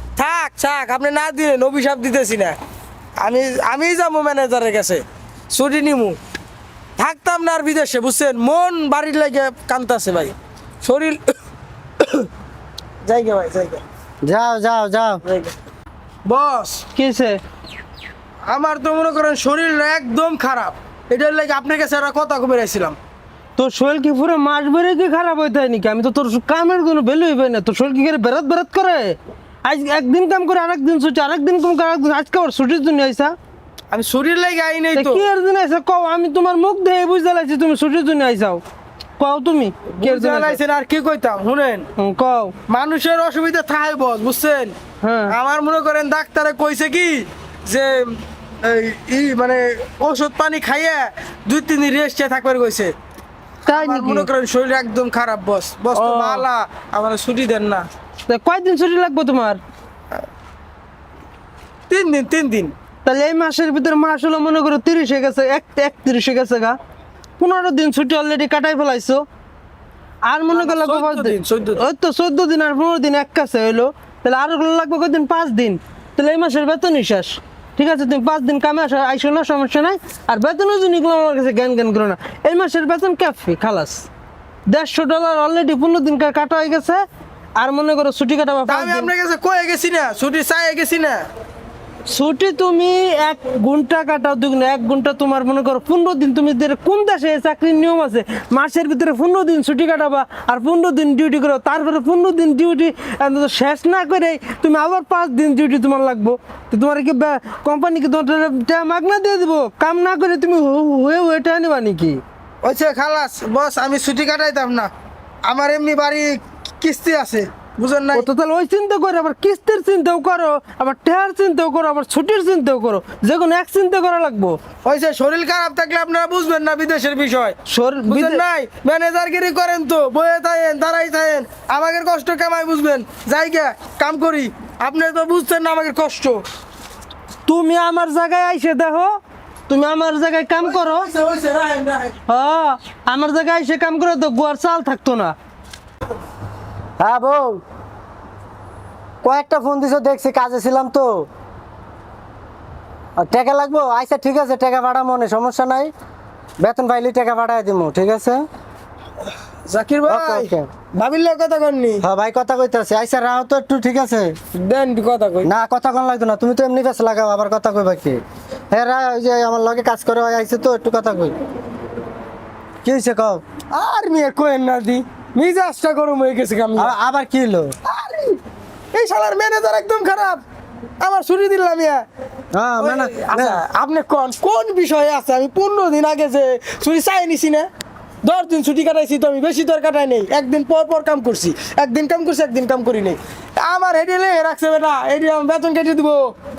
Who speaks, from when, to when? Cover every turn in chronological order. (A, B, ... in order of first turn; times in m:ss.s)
0:00.2-0:02.6 A
0:03.2-0:06.2 A
0:07.0-0:11.3 A
0:12.0-0:12.3 A
0:13.0-0:13.8 A
0:14.2-0:15.2 B
0:15.2-0:15.6 A
0:16.3-0:16.9 A
0:17.0-0:17.4 C
0:18.5-0:23.0 A
0:23.6-0:33.4 C
0:33.9-0:35.3 A
0:35.0-0:38.6 C
0:39.2-0:40.6 C
0:39.9-0:41.9 A
0:42.0-0:42.6 C
0:42.7-0:44.8 A
0:45.0-0:45.3 C
0:45.3-0:52.9 A
0:53.6-0:57.9 A
0:53.7-0:54.3 C
0:55.9-0:56.5 C
0:58.3-0:59.6 C
1:01.9-1:02.7 A
1:03.1-1:06.8 C
1:07.4-1:09.3 C
1:10.2-1:24.1 C
1:10.5-1:11.8 A
1:24.7-1:27.0 C
1:27.6-1:29.1 C
1:28.7-1:31.2 A
1:32.1-1:52.2 C
1:52.6-1:54.9 A
1:55.4-1:58.3 A
1:58.1-2:04.6 C
2:04.8-2:16.4 A
2:07.7-2:08.4 C
2:17.5-2:21.1 C
2:20.7-2:22.2 A
2:22.3-2:25.4 C
2:27.0-2:27.6 B
2:29.2-2:31.3 B
2:33.2-2:35.9 B
2:36.6-2:38.4 B
2:39.7-2:42.0 A
2:40.1-2:40.7 B
2:42.0-2:44.4 B
2:44.5-2:45.5 A
2:45.4-2:48.2 B
2:48.7-2:51.4 B
2:52.8-2:53.4 B
2:53.7-2:56.9 A
2:56.8-2:57.8 B
2:57.8-2:58.4 A
2:58.9-3:00.4 A
3:01.0-3:02.0 A
3:02.5-3:03.6 B
3:02.8-3:07.7 A
3:08.2-3:16.4 A